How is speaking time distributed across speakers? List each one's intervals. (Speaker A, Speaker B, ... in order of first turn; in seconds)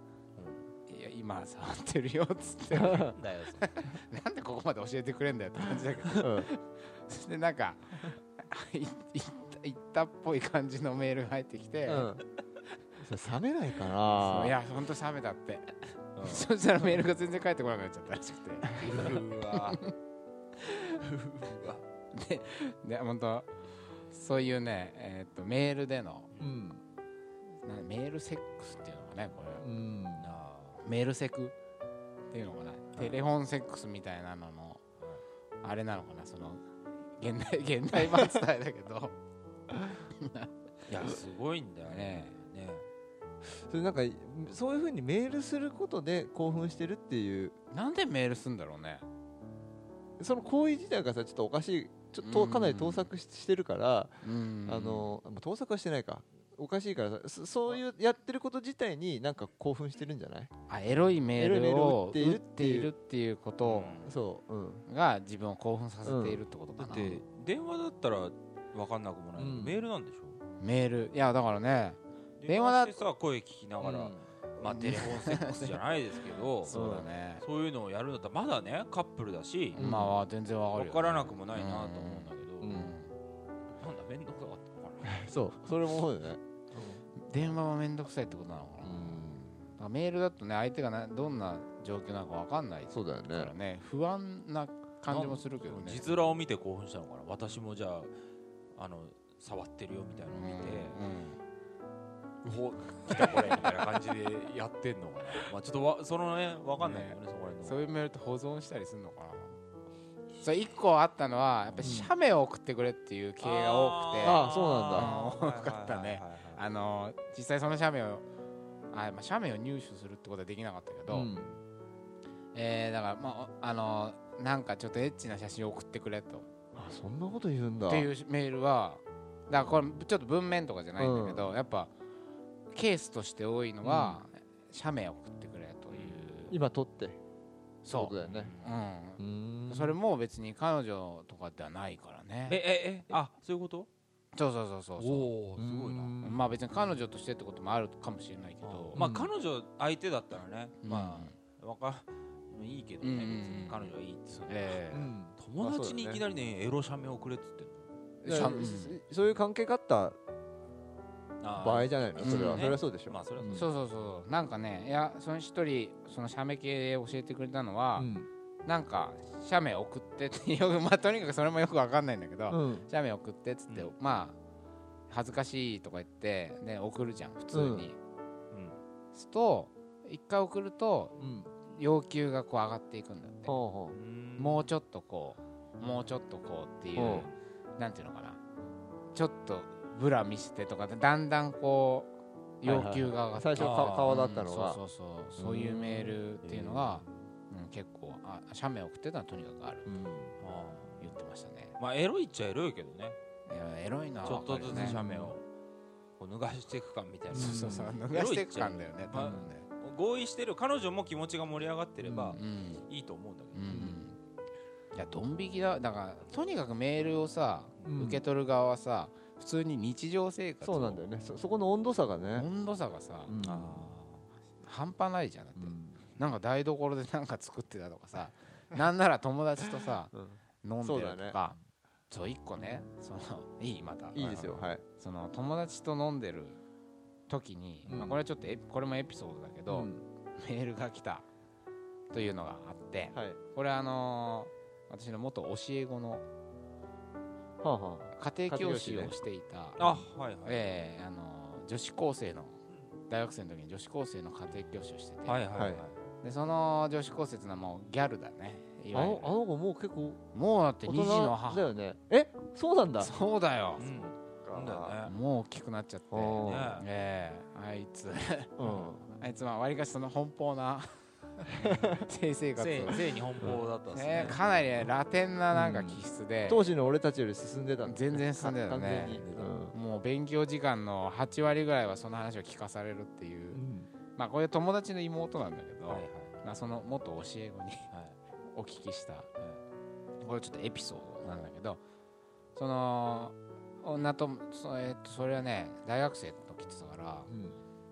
Speaker A: 0.3-0.6, 2.9-3.8, 16.1-16.5, 18.8-19.8, 20.7-21.8, 26.3-26.6, 30.2-30.8, 40.9-42.9, 63.6-64.2, 66.8-70.4, 72.4-76.8, 77.4-79.8, 80.7-82.8, 83.8-85.7, 95.1-98.1, 98.7-101.0, 102.4-107.8, 111.7-112.0, 113.4-116.6, 121.2-121.6, 135.9-136.2, 138.2-138.8, 142.5-143.9, 145.0-146.2, 148.6-157.9, 161.4-163.7, 173.7-173.9, 178.5-178.8, 183.9-184.7, 187.0-187.3, 193.6-194.2, 196.7-197.0, 200.4-201.1, 201.8-203.2, 204.2-205.4, 206.2-213.6, 223.4-224.2, 234.2-234.7, 249.8-250.8, 255.2-256.0, 263.8-265.1, 266.4-266.9, 272.6-274.4, 279.2-279.6, 285.9-286.4, 287.9-288.2
Speaker B: 0.9-12.2, 14.1-19.9, 22.1-26.3, 27.6-29.7, 30.8-31.6, 32.3-34.8, 35.6-36.6, 37.2-39.1, 40.2-40.5, 41.8-42.4, 47.7-49.0, 52.2-53.1, 54.2-55.1, 60.7-64.0, 64.9-67.2, 70.6-73.0, 74.6-75.8, 76.6-77.4, 79.7-83.1, 87.2-96.3, 100.3-101.4, 103.1-103.7, 106.8-109.6, 110.4-118.2, 118.9-121.3, 122.5-126.5, 127.9-131.9, 132.7-136.6, 137.8-142.6, 144.3-145.3, 146.2-149.0, 150.8-151.3, 153.0-153.9, 154.4-155.0, 158.2-159.0, 162.2-162.8, 163.5-168.1, 168.7-174.4, 175.1-178.0, 179.1-181.2, 181.7-183.6, 184.4-188.4, 189.1-199.9, 201.0-201.7, 203.5-205.0, 207.3-209.7, 212.3-212.8, 213.5-214.2, 214.9-221.0, 222.3-223.3, 224.6-231.6, 232.1-234.3, 235.0-236.6, 237.3-241.3, 242.1-246.2, 248.2-252.6, 253.1-259.4, 260.3-261.7, 263.0-263.9, 265.1-273.2, 273.9-276.7, 277.8-283.6, 284.1-287.9, 288.4-289.3, 290.2-291.8, 292.6-297.3
Speaker C: 2.7-3.1, 6.2-6.5, 11.8-12.2, 13.0-14.6, 26.4-26.8, 29.6-30.3, 43.4-47.5, 50.2-60.5, 61.4-62.9, 64.0-64.8, 66.0-66.4, 69.3-69.8, 73.8-74.2, 76.7-77.1, 79.7-80.2, 82.6-82.9, 85.1-87.0, 88.8-89.5, 92.9-93.5, 111.8-112.1, 114.2-115.1, 121.1-121.5, 126.7-128.1, 131.0-131.6, 133.8-134.2, 136.5-137.2, 137.9-138.5, 139.2-140.0, 145.6-146.4, 148.9-149.3, 154.9-156.2, 158.2-160.2, 161.6-163.7, 167.9-168.3, 172.5-172.9, 177.5-177.9, 181.2-181.5, 183.4-184.0, 187.0-187.3, 192.6-194.8, 195.4-196.7, 199.8-200.3, 204.7-205.3, 207.3-208.0, 209.2-209.5, 212.0-212.4, 213.7-214.0, 217.8-218.2, 220.6-222.5, 223.3-223.9, 225.6-226.0, 230.1-231.4, 234.1-234.8, 237.9-238.2, 239.7-240.0, 243.1-243.4, 247.6-249.2, 255.6-255.8, 258.9-260.2, 260.8-263.1, 264.4-265.0, 266.1-266.7, 268.6-269.1, 271.6-272.0, 275.5-279.8, 283.5-283.9, 297.3-297.6